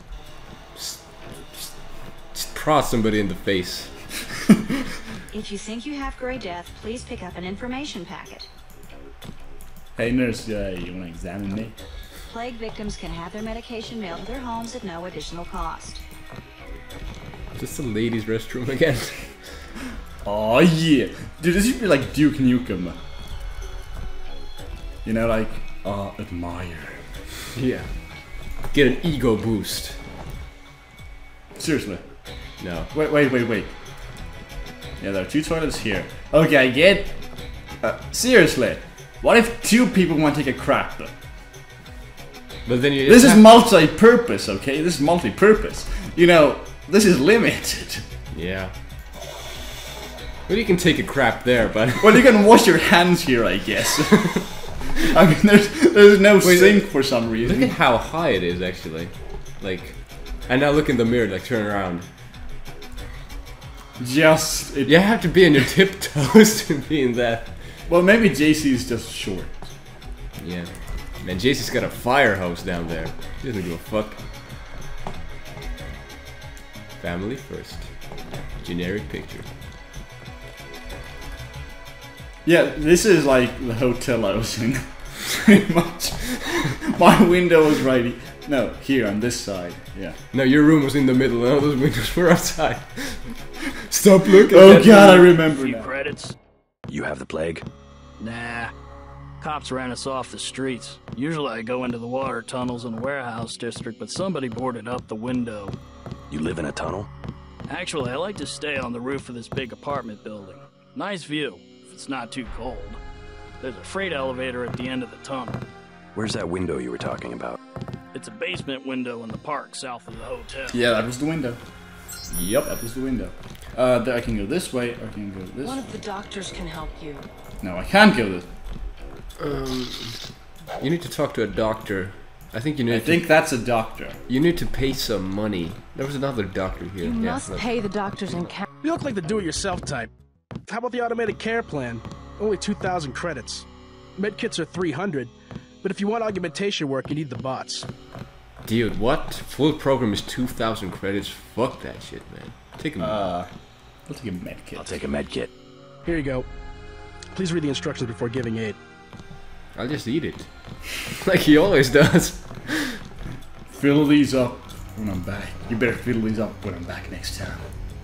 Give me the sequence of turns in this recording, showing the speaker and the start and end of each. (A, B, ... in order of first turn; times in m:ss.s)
0:00.7-0:01.8 A
0:02.3-0:03.9 A
0:05.3-0:08.5 B
0:10.0-0:11.8 C
0:12.3-0:16.0 B
0:17.5-0:19.6 A
0:20.2-0:23.0 C
0:25.0-0:27.0 C
0:27.5-0:30.0 A
0:31.6-0:32.2 C
0:32.6-0:32.9 A
0:32.9-0:33.7 C
0:35.0-0:41.1 C
0:42.6-0:43.6 A
0:43.0-0:48.0 C
0:48.3-0:48.7 A
0:50.5-0:52.3 A
0:52.0-0:57.7 C
0:54.2-0:54.4 A
0:56.4-1:02.1 A
1:04.0-1:05.1 C
1:04.8-1:07.8 A
1:07.9-1:09.7 C
1:10.4-1:14.2 A
1:17.0-1:19.5 A
1:22.4-1:30.2 C
1:30.3-1:35.4 A
1:34.2-1:35.9 C
1:35.5-1:36.3 D
1:36.9-1:37.6 E
1:38.2-1:38.7 D
1:39.4-1:45.8 D
1:46.3-1:47.1 E
1:47.7-1:53.0 D
1:53.6-1:55.6 D
1:56.1-1:57.6 E
1:58.1-2:00.8 D
2:00.7-2:01.6 C
2:02.3-2:06.1 C
2:02.3-2:02.7 A
2:05.6-2:07.3 F
2:07.6-2:08.5 C
2:09.4-2:10.2 A
2:10.8-2:13.3 A
2:12.9-2:14.2 C
2:14.3-2:17.7 A
2:17.0-2:18.6 F
2:18.8-2:20.1 G
2:20.7-2:23.6 G
2:24.2-2:27.9 G
2:28.6-2:33.3 A
2:33.0-2:33.5 C
2:34.0-2:35.0 C
2:34.7-2:35.5 E
2:36.0-2:36.5 G
2:37.3-2:38.8 G
2:39.7-2:43.0 A
2:43.7-2:47.7 C